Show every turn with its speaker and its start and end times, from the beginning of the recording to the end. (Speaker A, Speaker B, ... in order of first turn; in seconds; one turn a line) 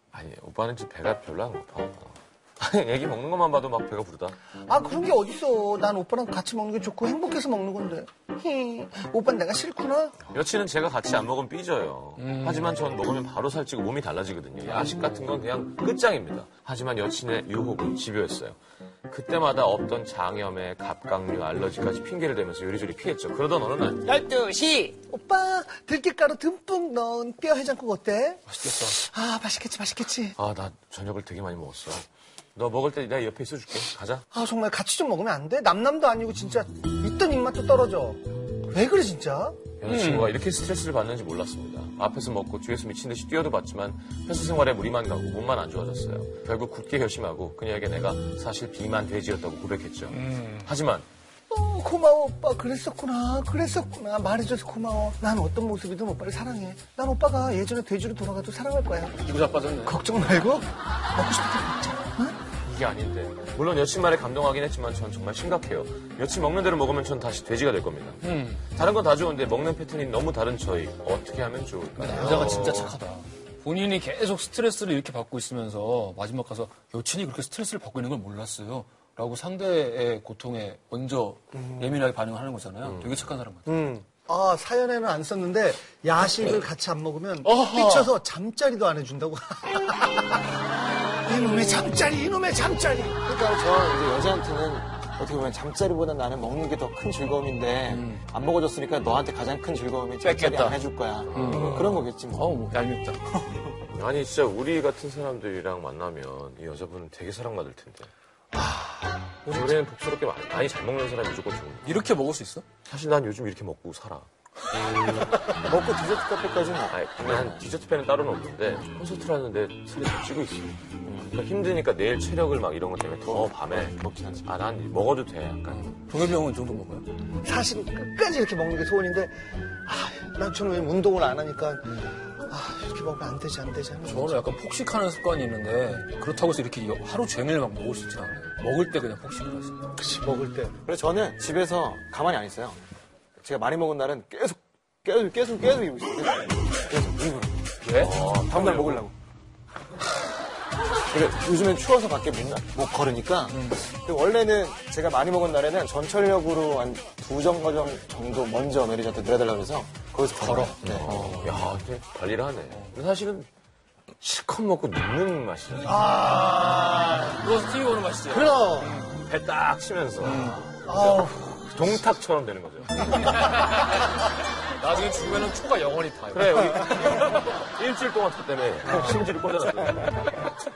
Speaker A: 0.1-4.4
Speaker B: 4.7-10.2
Speaker A: 10.3-24.1
Speaker C: 12.2-12.8
Speaker C: 14.7-15.4
Speaker D: 24.1-24.9
Speaker B: 25.1-30.4
Speaker C: 28.5-29.0
Speaker A: 30.4-34.2
Speaker B: 34.3-39.6
Speaker A: 39.8-51.1
Speaker C: 39.9-40.4
Speaker C: 50.1-50.7
Speaker B: 51.5-59.2
Speaker C: 59.2-60.0
Speaker B: 59.9-62.4
Speaker A: 62.6-73.0
Speaker C: 68.2-68.6
Speaker C: 72.0-83.7
Speaker B: 81.6-81.9
Speaker A: 82.8-83.3
Speaker B: 83.7-90.5
Speaker C: 87.4-88.1
Speaker B: 91.2-93.2
Speaker D: 93.3-102.5
Speaker C: 97.9-98.2
Speaker C: 100.2-103.6
Speaker A: 101.3-102.1
Speaker A: 103.9-108.1
Speaker A: 109.5-112.0
Speaker C: 111.8-112.7
Speaker A: 112.9-114.3
Speaker D: 115.5-117.6
Speaker A: 116.9-120.8
Speaker D: 121.0-121.4
Speaker A: 121.3-125.9
Speaker D: 123.3-124.5
Speaker C: 125.7-127.1
Speaker B: 127.4-129.3
Speaker B: 129.9-134.5
Speaker C: 134.1-139.8
Speaker B: 140.0-140.8
Speaker D: 140.8-142.8
Speaker D: 143.4-147.7
Speaker C: 147.8-148.2
Speaker A: 148.0-149.1
Speaker D: 148.3-149.1
Speaker D: 151.1-161.5
Speaker C: 153.5-153.8
Speaker C: 160.3-161.4
Speaker A: 160.8-163.5
Speaker A: 164.2-166.0
Speaker B: 165.9-167.4
Speaker C: 167.3-169.2
Speaker B: 168.3-169.1
Speaker A: 169.2-173.6
Speaker C: 170.2-170.7
Speaker B: 170.8-172.1
Speaker C: 173.0-174.2
Speaker C: 174.7-177.4
Speaker A: 176.3-180.4
Speaker B: 178.9-179.3